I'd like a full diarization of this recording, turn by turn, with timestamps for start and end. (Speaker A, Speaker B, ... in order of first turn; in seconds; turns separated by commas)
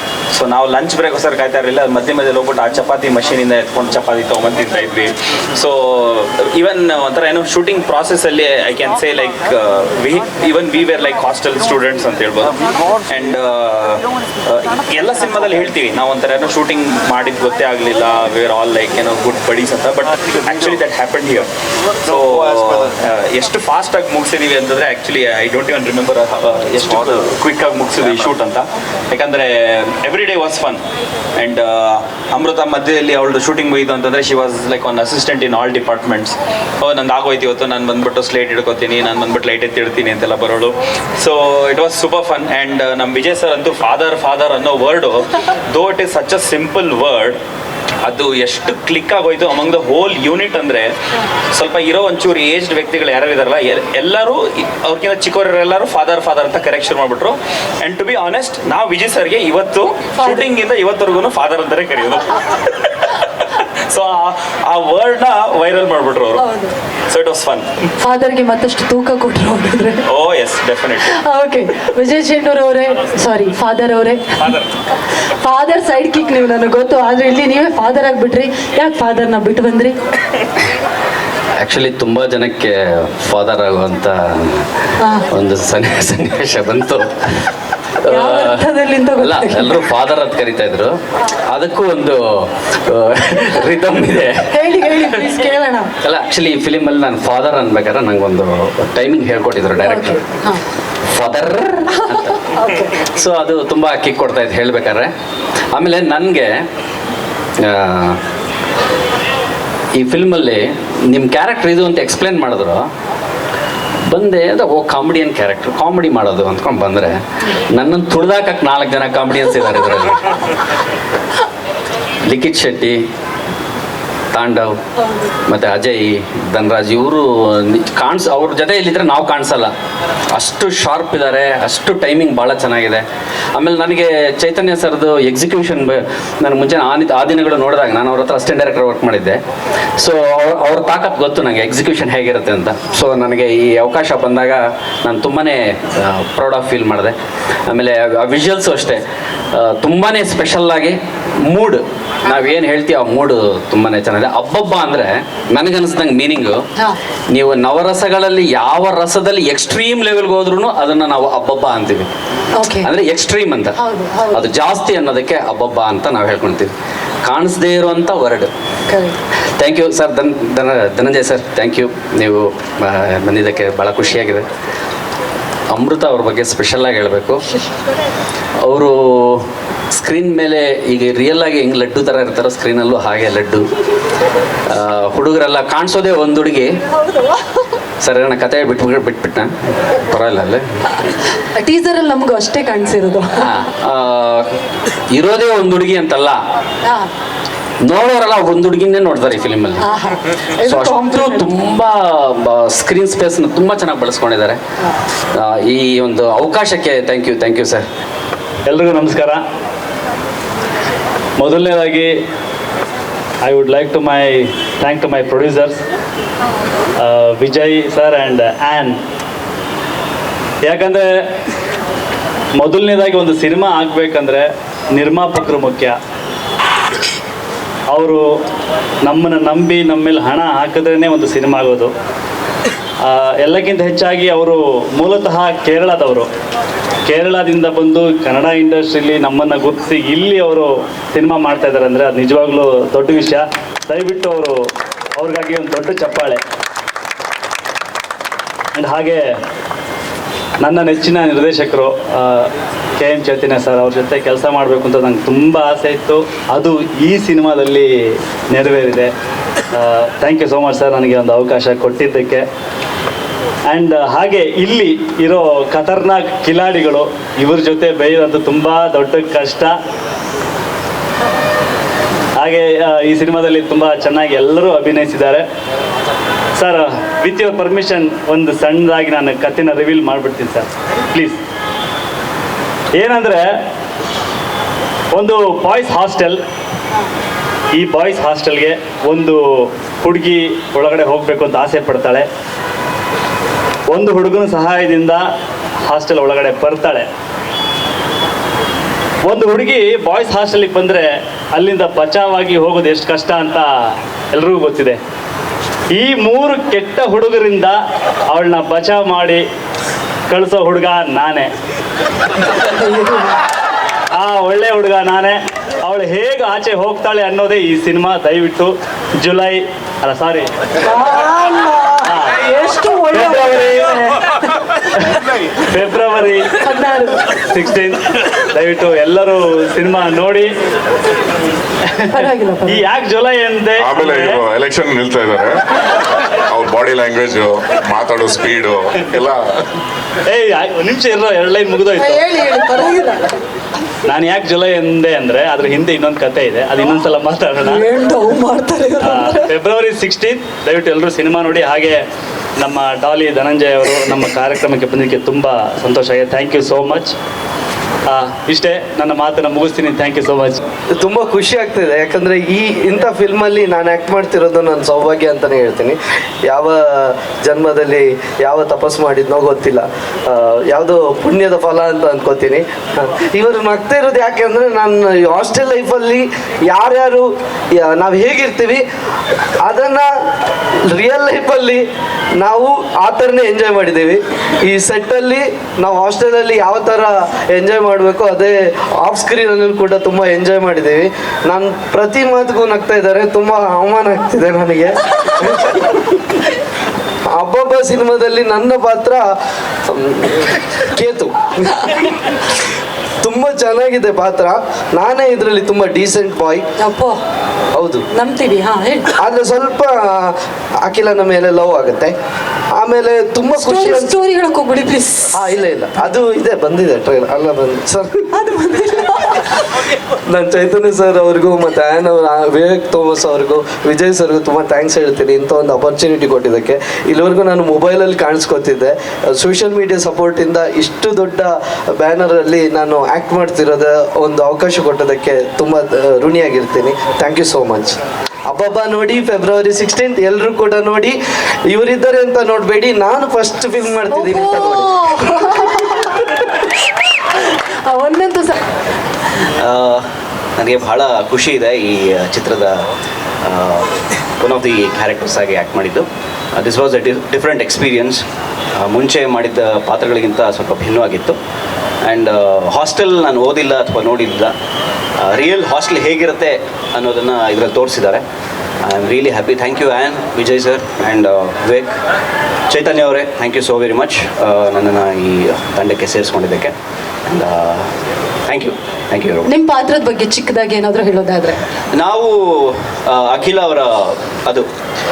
Speaker A: 0.3-12.6, Speaker A: 13.1-21.5, Speaker A: 22.1-30.8, Speaker A: 31.4-47.4, Speaker A: 48.0-50.9, Speaker A: 51.5-62.6, Speaker B: 60.2-60.5, Speaker A: 63.9-66.4, Speaker B: 66.4-66.7, Speaker A: 67.1-67.7, Speaker B: 68.0-70.1, Speaker A: 70.1-71.0, Speaker B: 71.0-74.5, Speaker B: 75.4-80.0, Speaker C: 81.6-84.6, Speaker C: 85.2-87.5, Speaker C: 88.0-92.2, Speaker B: 88.1-89.8, Speaker C: 92.9-95.3, Speaker B: 94.5-95.9, Speaker C: 96.0-100.2, Speaker B: 99.8-100.6, Speaker C: 101.1-102.4, Speaker B: 102.6-102.9, Speaker C: 103.2-105.1, Speaker C: 105.8-106.5, Speaker C: 107.7-108.2, Speaker C: 110.0-112.8, Speaker C: 114.1-117.2, Speaker C: 117.7-120.2, Speaker C: 122.3-123.0, Speaker C: 124.3-124.8, Speaker C: 125.5-127.2, Speaker C: 127.8-129.7, Speaker C: 130.4-133.0, Speaker C: 133.6-139.4, Speaker C: 140.0-147.2, Speaker C: 147.7-149.0, Speaker C: 149.5-156.6, Speaker C: 157.3-162.1, Speaker B: 162.6-162.9, Speaker C: 162.8-163.8, Speaker B: 163.8-164.4, Speaker C: 164.3-166.7, Speaker C: 167.3-168.5, Speaker B: 168.9-169.2, Speaker C: 169.6-174.4, Speaker C: 175.7-177.4, Speaker C: 178.7-179.4, Speaker C: 180.0-183.7, Speaker C: 184.7-186.7, Speaker C: 188.0-190.6, Speaker B: 191.6-193.5, Speaker C: 193.4-194.5, Speaker C: 195.1-196.4, Speaker C: 197.8-199.9, Speaker B: 199.8-201.4, Speaker C: 200.6-204.6, Speaker C: 205.4-207.8, Speaker D: 208.7-209.4, Speaker D: 211.4-212.1, Speaker D: 213.4-215.8, Speaker D: 217.0-219.0, Speaker D: 220.7-221.1, Speaker D: 222.6-225.9, Speaker D: 227.9-228.2, Speaker D: 229.1-231.9, Speaker D: 233.1-236.3, Speaker D: 237.1-244.6, Speaker D: 245.2-246.4, Speaker D: 248.8-249.3, Speaker D: 250.6-257.9, Speaker D: 258.5-259.1, Speaker D: 259.8-262.4, Speaker D: 263.7-269.7, Speaker D: 272.4-275.4, Speaker D: 276.6-281.4, Speaker D: 282.9-283.5, Speaker D: 285.1-286.4, Speaker D: 287.8-292.3, Speaker D: 293.9-295.2, Speaker D: 295.9-297.1, Speaker D: 299.3-305.0, Speaker D: 305.9-307.8, Speaker D: 308.3-309.4, Speaker D: 310.3-311.5, Speaker B: 312.8-313.4, Speaker D: 314.2-320.5, Speaker B: 320.9-324.1, Speaker D: 322.0-322.4, Speaker D: 323.1-324.1, Speaker D: 325.0-326.6, Speaker B: 326.6-327.3, Speaker D: 327.4-330.5, Speaker D: 332.0-334.4, Speaker B: 332.1-332.9, Speaker E: 333.8-335.8, Speaker E: 336.5-339.6, Speaker D: 340.3-342.2, Speaker B: 342.0-343.4, Speaker D: 344.1-347.8, Speaker B: 347.6-349.6, Speaker D: 349.0-352.0, Speaker D: 352.6-357.1, Speaker D: 358.1-360.6, Speaker F: 360.9-378.8, Speaker F: 379.6-380.1, Speaker F: 380.9-381.8, Speaker F: 382.4-396.2, Speaker F: 397.4-399.3, Speaker F: 399.9-401.8, Speaker F: 403.2-406.6, Speaker B: 406.8-407.2, Speaker F: 407.8-408.0, Speaker B: 408.1-409.1, Speaker F: 409.2-412.1, Speaker F: 412.8-414.2, Speaker B: 413.5-415.5, Speaker F: 415.3-418.2, Speaker B: 418.3-419.6, Speaker F: 420.3-438.0, Speaker F: 438.5-441.2, Speaker F: 441.7-445.1, Speaker B: 444.1-446.2, Speaker B: 447.5-448.6, Speaker G: 449.6-450.0, Speaker G: 450.6-452.8, Speaker G: 453.5-453.9, Speaker G: 454.4-458.2, Speaker G: 458.8-461.4, Speaker G: 462.1-464.5, Speaker G: 465.2-468.2, Speaker G: 468.8-472.0, Speaker G: 472.7-476.7, Speaker G: 477.3-477.8, Speaker G: 478.5-479.5, Speaker B: 479.4-481.6, Speaker G: 481.9-484.7